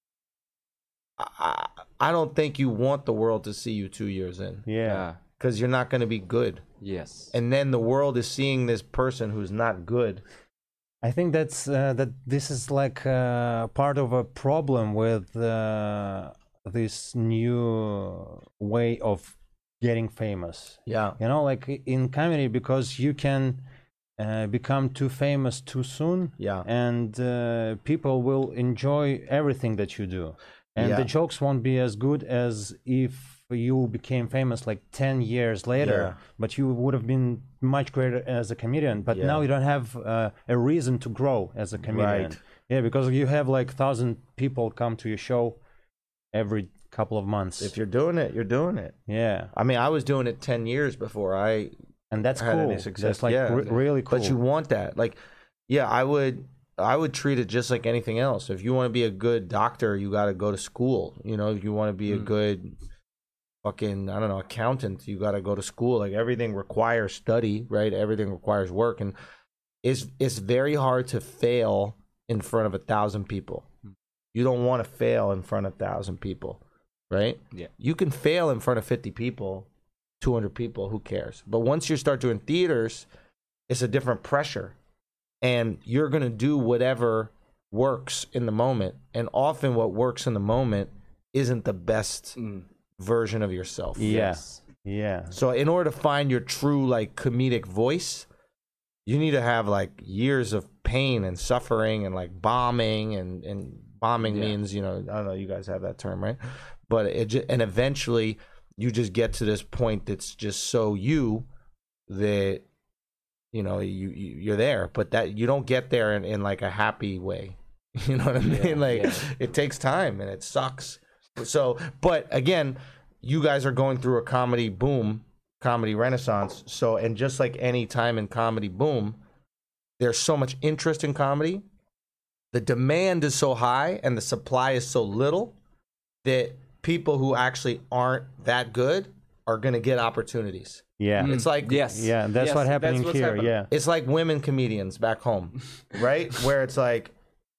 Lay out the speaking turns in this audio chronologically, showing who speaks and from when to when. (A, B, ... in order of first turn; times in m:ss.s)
0:01.2-0:04.7 A
0:04.7-0:05.1 B
0:04.9-0:05.2 C
0:05.4-0:06.6 A
0:06.8-0:07.3 C
0:07.3-0:10.2 A
0:11.0-0:23.6 B
0:20.9-0:21.2 A
0:24.2-0:45.6 B
0:26.4-0:26.7 A
0:30.8-0:31.1 A
0:35.8-0:36.2 A
0:39.1-0:39.4 A
0:41.9-0:42.4 A
0:46.3-0:47.7 B
0:47.6-0:49.0 A
0:49.1-0:49.5 B
0:49.5-0:51.7 A
0:52.1-0:54.4 B
0:52.3-1:02.8 A
1:03.6-1:09.2 A
1:09.8-1:13.7 A
1:14.3-1:19.7 A
1:20.2-1:23.1 A
1:23.7-1:24.8 A
1:25.4-1:32.4 A
1:32.4-1:32.7 C
1:33.0-1:34.2 A
1:34.0-1:35.4 B
1:34.0-1:34.6 C
1:35.3-1:38.3 A
1:39.1-1:51.5 A
1:44.2-1:44.6 C
1:52.1-1:52.6 A
1:53.5-2:09.2 A
1:58.4-1:59.3 C
2:10.0-2:11.6 A
2:12.5-2:15.6 A
2:16.2-2:21.9 A
2:21.0-2:23.7 B
2:21.2-2:23.6 C
2:23.7-2:27.1 A